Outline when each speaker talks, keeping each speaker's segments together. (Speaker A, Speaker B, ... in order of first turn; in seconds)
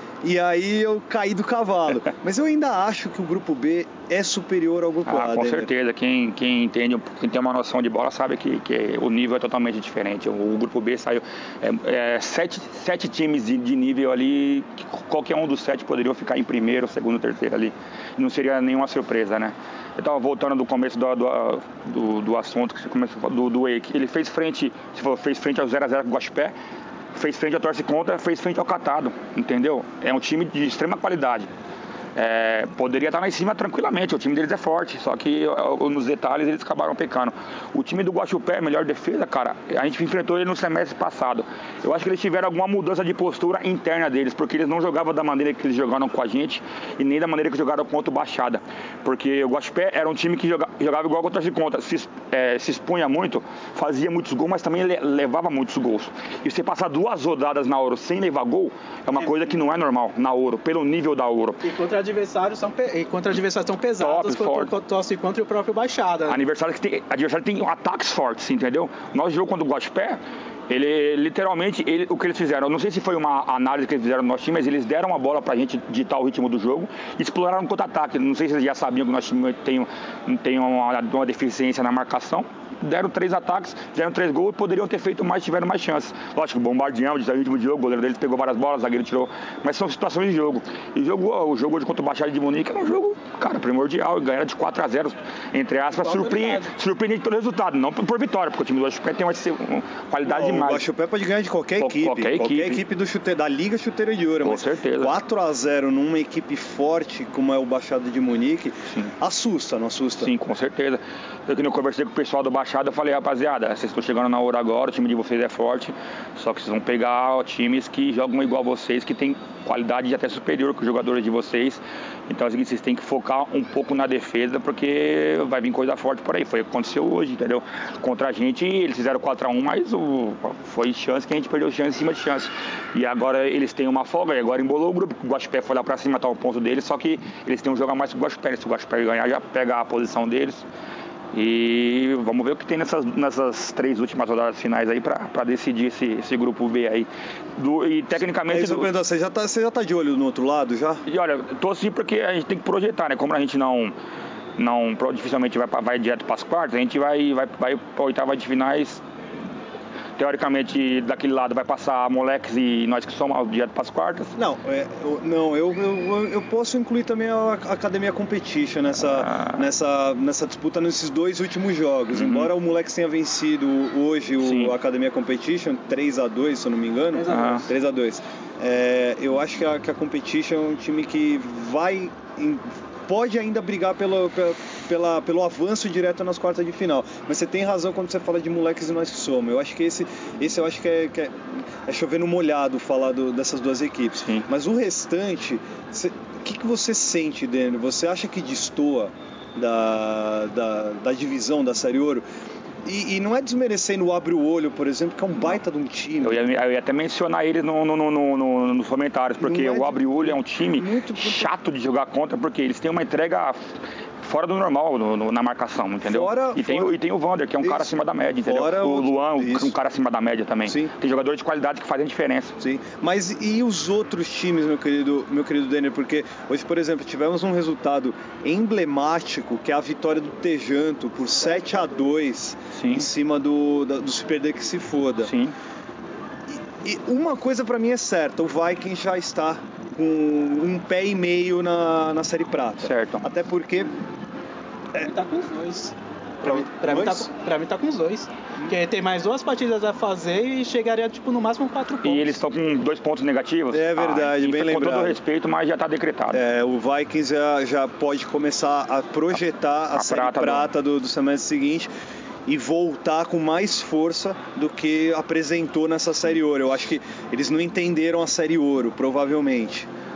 Speaker A: 0.2-5.7, 100.2-110.3, 148.5-151.0, 164.4-202.2, 202.8-206.4, 209.4-211.5, 216.1-216.9, 217.6-219.8, 220.7-220.9, 222.6-235.3, 236.5-243.9, 246.4-247.3, 253.7-255.2, 256.3-261.9, 262.5-269.9
Speaker B: 5.1-26.5, 27.1-31.5, 32.1-61.6, 64.0-64.7, 66.3-100.9, 101.8-102.8, 104.4-105.1, 110.2-140.7, 141.3-148.9, 151.1-153.9, 154.6-159.0, 160.2-164.3, 169.0-169.6, 172.1-172.5, 174.4-174.7, 177.3-177.6, 206.2-222.6, 232.7-233.1, 235.2-235.6, 242.8-243.3, 252.0-256.4, 259.9-260.7
Speaker C: 61.6-66.4, 95.9-96.7, 177.1-177.7, 245.0-252.4